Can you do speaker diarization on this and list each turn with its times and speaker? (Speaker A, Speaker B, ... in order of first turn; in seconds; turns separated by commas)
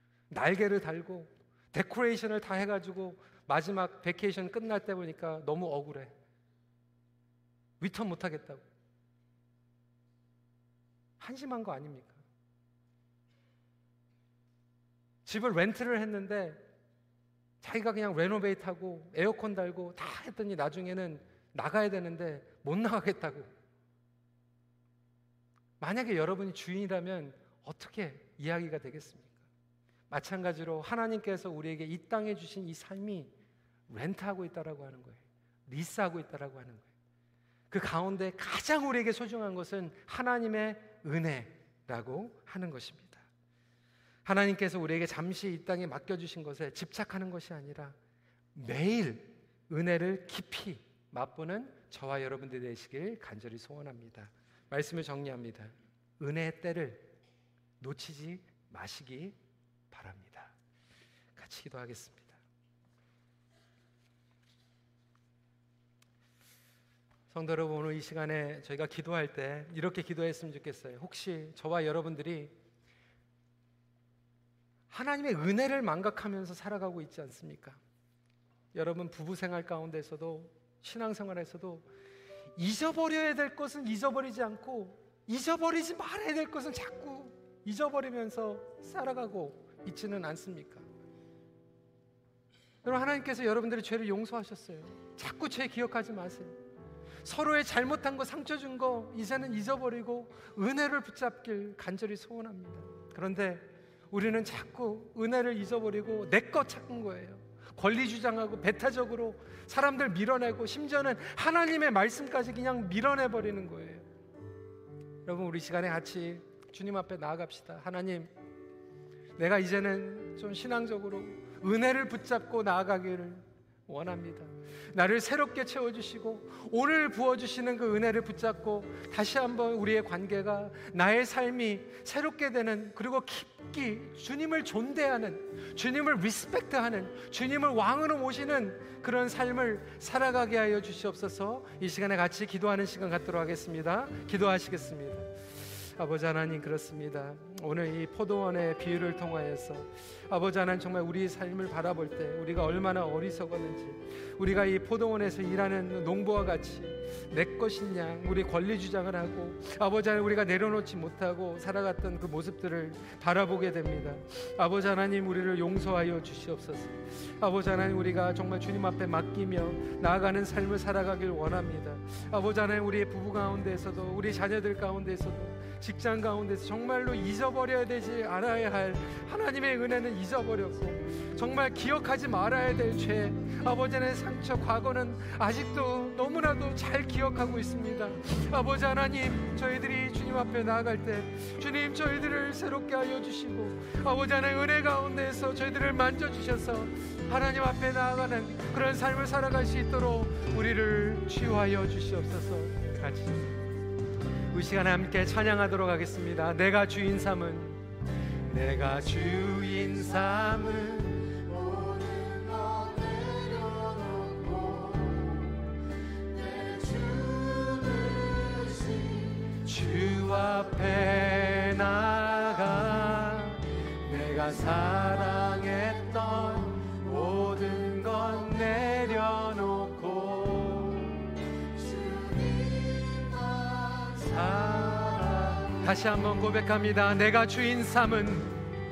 Speaker A: 0.3-6.1, Speaker A: 7.8-8.6, Speaker A: 11.2-12.2, Speaker A: 15.2-16.6, Speaker A: 17.6-23.5, Speaker A: 25.8-29.4, Speaker A: 30.1-33.3, Speaker A: 33.9-36.9, Speaker A: 37.7-43.2, Speaker A: 44.2-47.9, Speaker A: 48.5-57.1, Speaker A: 57.8-59.4, Speaker A: 59.9-60.5, Speaker A: 61.4-62.4, Speaker A: 67.3-72.5, Speaker A: 74.9-77.8, Speaker A: 78.7-81.8, Speaker A: 82.6-90.8, Speaker A: 92.8-96.5, Speaker A: 97.2-114.0, Speaker A: 115.2-118.3, Speaker A: 119.4-145.3, Speaker A: 145.8-203.6, Speaker A: 204.5-207.8, Speaker A: 208.5-215.6, Speaker A: 216.3-238.6